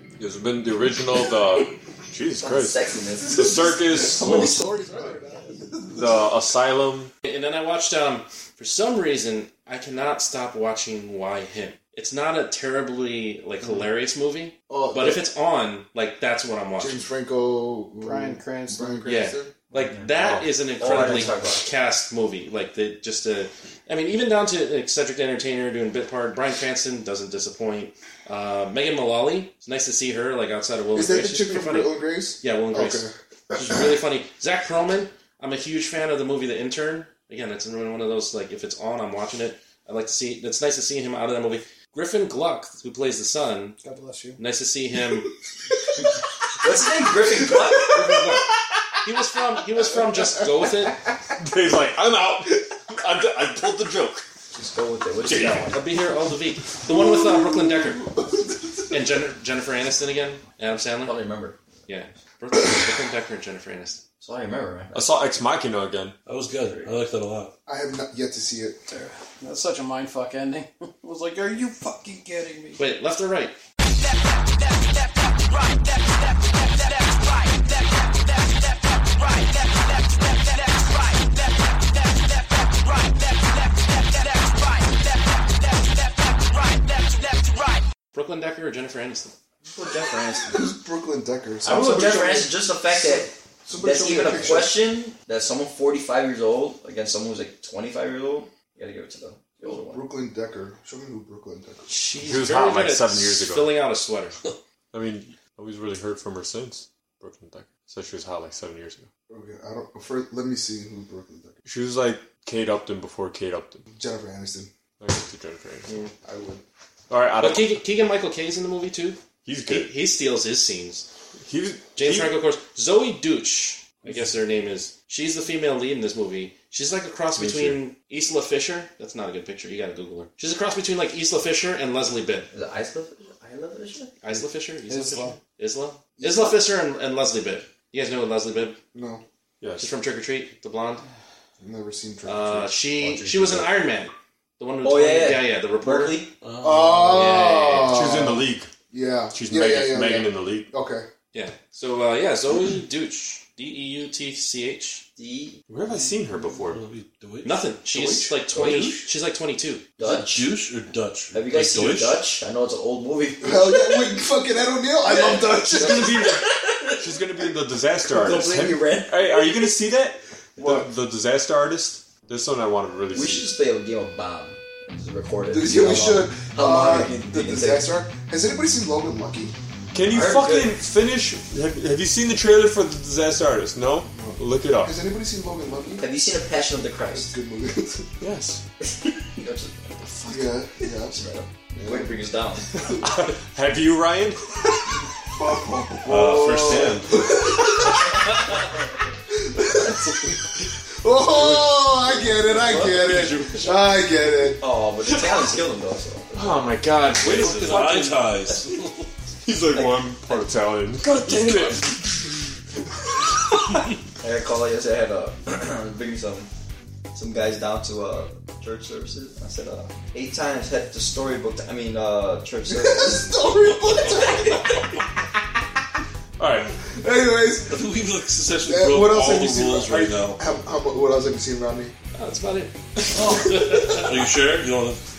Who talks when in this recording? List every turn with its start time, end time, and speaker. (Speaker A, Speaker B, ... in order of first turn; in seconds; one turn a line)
Speaker A: 0.2-2.8
Speaker B: 2.4-3.7
Speaker C: 3.2-6.3
Speaker A: 3.3-4.6
Speaker A: 5.9-7.1
Speaker D: 7.2-17.1
Speaker C: 14.7-15.2
Speaker C: 16.8-19.6
Speaker E: 18.0-19.1
Speaker D: 19.1-43.8
Speaker B: 19.7-21.7
Speaker A: 20.1-20.5
Speaker C: 30.9-33.8
Speaker E: 43.8-44.4
Speaker D: 44.4-45.3
Speaker B: 46.6-48.0
Speaker C: 47.3-48.4
Speaker D: 47.9-48.5
Speaker D: 49.0-51.0
Speaker C: 49.9-50.7
Speaker A: 51.4-54.2
Speaker B: 54.5-55.8
Speaker A: 55.2-55.8
Speaker D: 55.7-58.1
Speaker C: 56.9-59.0
Speaker D: 58.9-61.2
Speaker B: 61.0-61.6
Speaker D: 61.9-64.0
Speaker B: 64.2-65.3
Speaker A: 64.9-66.2
Speaker F: 66.3-67.5
Speaker B: 66.6-67.0
Speaker C: 67.7-68.8
Speaker E: 68.9-72.8
Speaker D: 72.8-73.6
Speaker D: 88.1-89.3
Speaker B: 89.7-90.7
Speaker C: 90.5-94.8
Speaker B: 91.6-100.0
Speaker C: 99.7-101.9
Speaker D: 101.9-104.3
Speaker A: 102.2-103.8
Speaker A: 104.9-109.1
Speaker C: 109.3-111.6
Speaker A: 111.7-113.8
Speaker C: 113.9-114.7
Speaker A: 115.0-115.9
Speaker C: 115.9-116.6
Speaker A: 117.1-117.8
Speaker D: 117.4-121.1
Speaker A: 119.5-120.0
Speaker A: 121.5-122.3
Speaker D: 122.0-132.5
Speaker A: 127.4-127.7
Speaker B: 132.5-134.2
Speaker D: 134.2-138.8
Speaker E: 134.9-135.4
Speaker C: 136.2-136.6
Speaker C: 138.9-139.2
Speaker A: 139.6-139.9
Speaker D: 139.8-141.0
Speaker C: 141.6-142.7
Speaker D: 142.2-146.2
Speaker B: 143.0-143.7
Speaker B: 144.8-146.3
Speaker F: 146.4-147.3
Speaker C: 146.6-151.1
Speaker D: 147.1-148.0
Speaker A: 147.8-148.7
Speaker A: 149.3-150.7
Speaker D: 151.3-155.0
Speaker B: 155.2-155.6
Speaker A: 155.7-156.8
Speaker F: 156.6-157.6
Speaker D: 157.4-159.8
Speaker C: 157.9-159.1
Speaker B: 160.0-160.6
Speaker F: 160.0-162.2
Speaker B: 161.3-164.2
Speaker C: 163.4-166.3
Speaker B: 165.0-167.1
Speaker A: 165.7-173.5
Speaker B: 168.0-169.7
Speaker C: 170.6-170.9
Speaker B: 173.1-177.9
Speaker C: 175.5-179.6
Speaker A: 179.9-184.9
Speaker B: 180.1-180.8
Speaker C: 184.1-186.1
Speaker B: 186.0-187.3
Speaker C: 187.1-188.1
Speaker A: 188.2-188.6
Speaker B: 188.8-192.8
Speaker C: 190.3-191.2
Speaker C: 191.8-192.1
Speaker A: 193.0-194.8
Speaker C: 195.4-198.3
Speaker F: 196.1-197.2
Speaker C: 199.3-200.4
Speaker C: 201.0-204.6
Speaker D: 202.1-203.8
Speaker B: 204.6-206.8
Speaker A: 206.3-208.3
Speaker F: 207.1-209.1
Speaker D: 207.2-208.1
Speaker A: 209.4-212.4
Speaker B: 209.7-210.5
Speaker B: 211.0-212.0
Speaker B: 214.2-216.5
Speaker B: 217.1-223.3
Speaker C: 222.7-225.0
Speaker B: 223.9-224.9
Speaker A: 226.4-226.8
Speaker C: 226.8-227.9
Speaker F: 227.7-230.4
Speaker C: 228.7-231.9
Speaker D: 232.1-234.2
Speaker C: 233.2-234.0
Speaker F: 234.0-235.0